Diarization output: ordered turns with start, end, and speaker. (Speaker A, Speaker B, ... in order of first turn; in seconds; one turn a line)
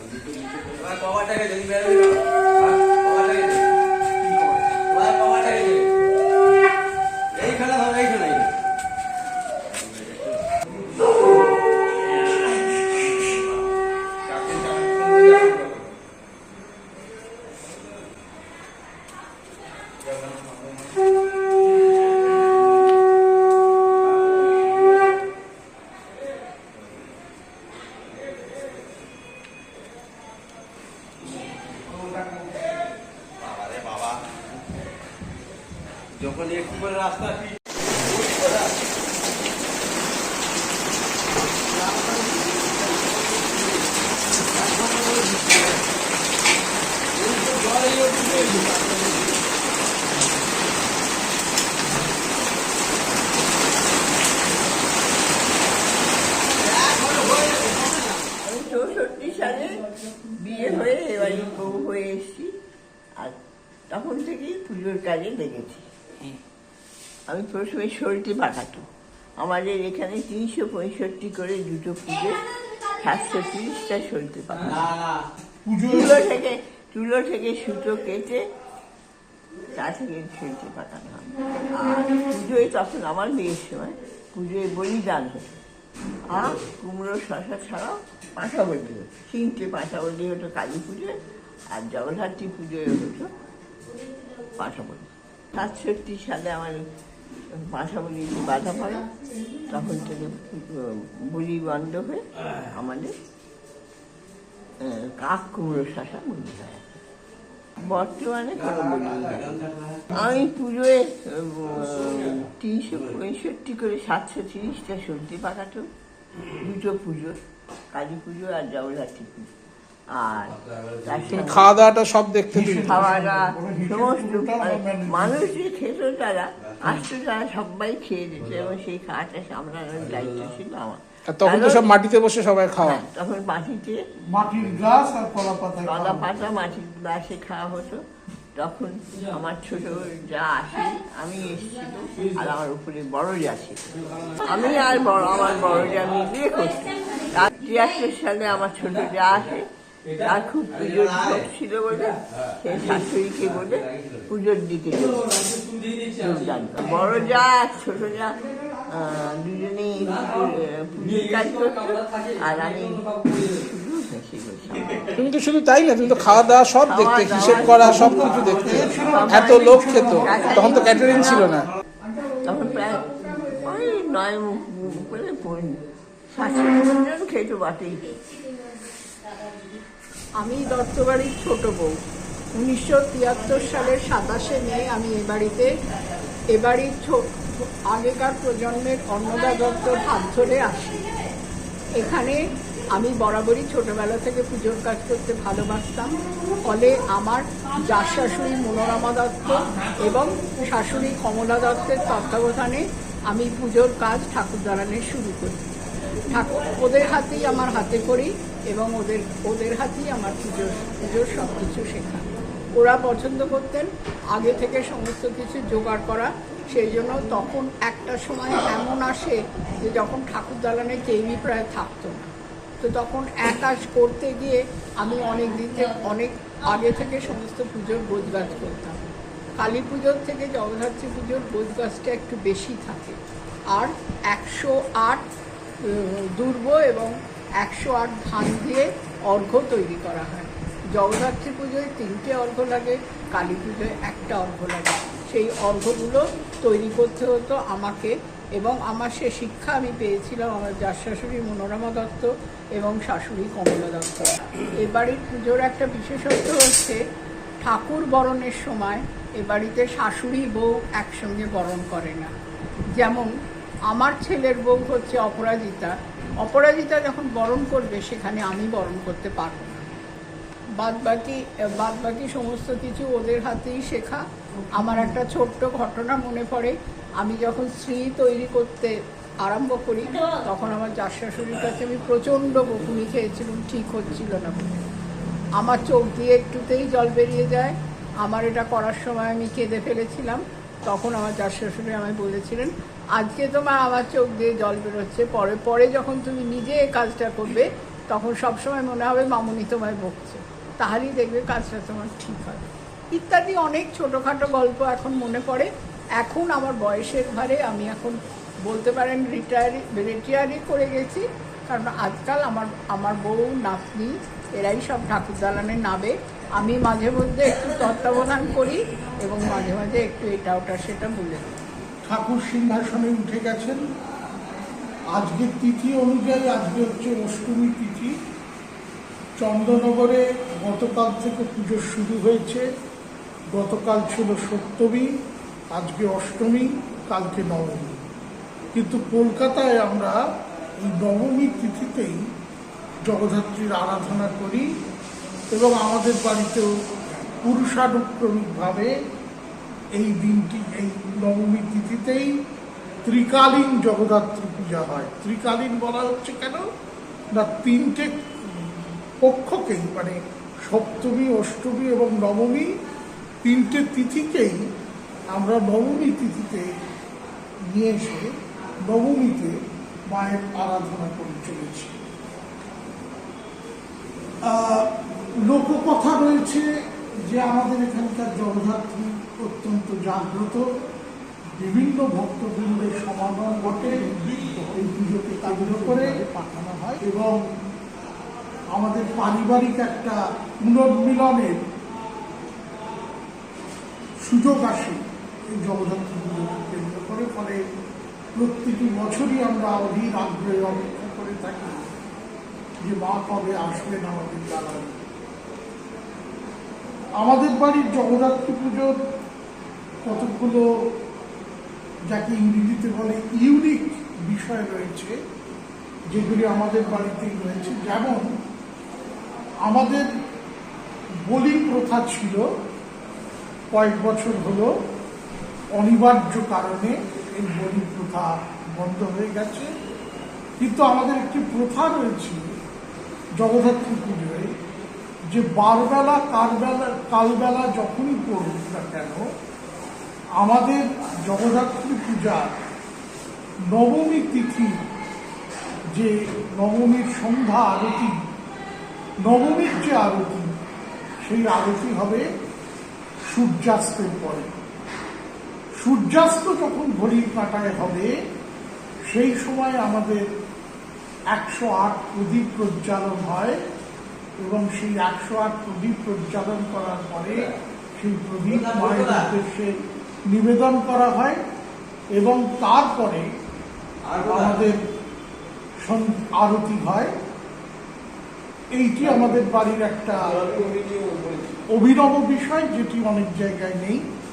Speaker A: 0.8-2.0
Speaker B: 4.2-4.8
Speaker A: 4.9-5.7
Speaker A: 20.0-21.0
Speaker A: 36.2-36.8
Speaker C: 58.3-62.5
Speaker C: 63.9-65.9
Speaker C: 67.3-68.9
Speaker C: 69.4-74.9
Speaker B: 75.7-76.3
Speaker C: 75.9-78.4
Speaker C: 79.7-85.6
Speaker C: 86.3-91.2
Speaker C: 91.7-93.3
Speaker C: 94.6-96.8
Speaker C: 97.5-99.1
Speaker C: 99.6-103.1
Speaker C: 104.8-107.0
Speaker C: 107.8-115.9
Speaker C: 116.6-117.4
Speaker C: 117.9-119.5
Speaker C: 120.1-121.8
Speaker A: 120.5-121.5
Speaker D: 121.3-122.9
Speaker B: 122.5-125.6
Speaker C: 122.8-131.9
Speaker A: 129.9-130.5
Speaker D: 131.3-133.0
Speaker C: 132.8-134.0
Speaker B: 134.3-136.4
Speaker C: 135.8-138.0
Speaker C: 138.6-165.1
Speaker D: 165.2-171.7
Speaker C: 166.8-171.5
Speaker B: 168.4-170.7
Speaker C: 172.4-178.4
Speaker E: 180.4-182.0
Speaker E: 182.5-185.7
Speaker E: 186.5-191.1
Speaker E: 192.0-205.7
Speaker E: 206.3-229.0
Speaker E: 229.6-233.2
Speaker E: 233.7-235.3
Speaker E: 235.8-257.0
Speaker E: 257.6-262.3
Speaker E: 262.9-263.3
Speaker E: 263.9-269.9
Speaker E: 270.8-274.2
Speaker B: 274.6-275.2
Speaker E: 274.8-284.8
Speaker E: 285.6-321.6
Speaker B: 322.1-323.8
Speaker B: 325.1-328.1
Speaker B: 329.4-332.7
Speaker B: 333.5-335.1
Speaker B: 335.7-338.0
Speaker B: 338.7-340.2
Speaker B: 340.8-342.2
Speaker B: 343.0-344.7
Speaker B: 345.5-346.7
Speaker B: 347.4-348.9
Speaker B: 349.9-352.4
Speaker B: 353.1-356.7
Speaker B: 357.3-362.8
Speaker B: 363.4-364.6
Speaker B: 365.3-366.7
Speaker B: 367.7-368.3
Speaker B: 368.9-369.6
Speaker B: 370.1-372.0
Speaker B: 374.4-376.7
Speaker B: 377.2-380.7
Speaker B: 381.6-387.4
Speaker D: 385.4-386.2
Speaker B: 388.7-391.6
Speaker B: 394.2-395.0
Speaker B: 395.6-397.6
Speaker B: 398.4-401.9
Speaker B: 402.8-405.1
Speaker B: 407.2-408.9
Speaker B: 410.1-410.9
Speaker B: 412.1-415.2
Speaker B: 416.1-418.3
Speaker B: 419.6-420.1
Speaker B: 421.3-422.4
Speaker B: 423.7-424.7
Speaker B: 425.7-429.7
Speaker B: 430.6-432.4
Speaker B: 433.4-434.5
Speaker B: 435.3-439.2
Speaker B: 440.4-442.5
Speaker B: 443.7-444.8
Speaker B: 445.9-448.1
Speaker B: 449.2-450.5
Speaker B: 451.2-452.2
Speaker B: 453.3-454.5
Speaker B: 455.8-458.1
Speaker B: 459.1-460.2
Speaker B: 461.3-463.6
Speaker B: 464.4-469.8
Speaker B: 470.3-471.4
Speaker B: 472.1-473.3
Speaker B: 474.1-474.8
Speaker B: 475.8-477.1
Speaker B: 478.8-480.5
Speaker A: 480.6-481.4
Speaker B: 481.7-484.1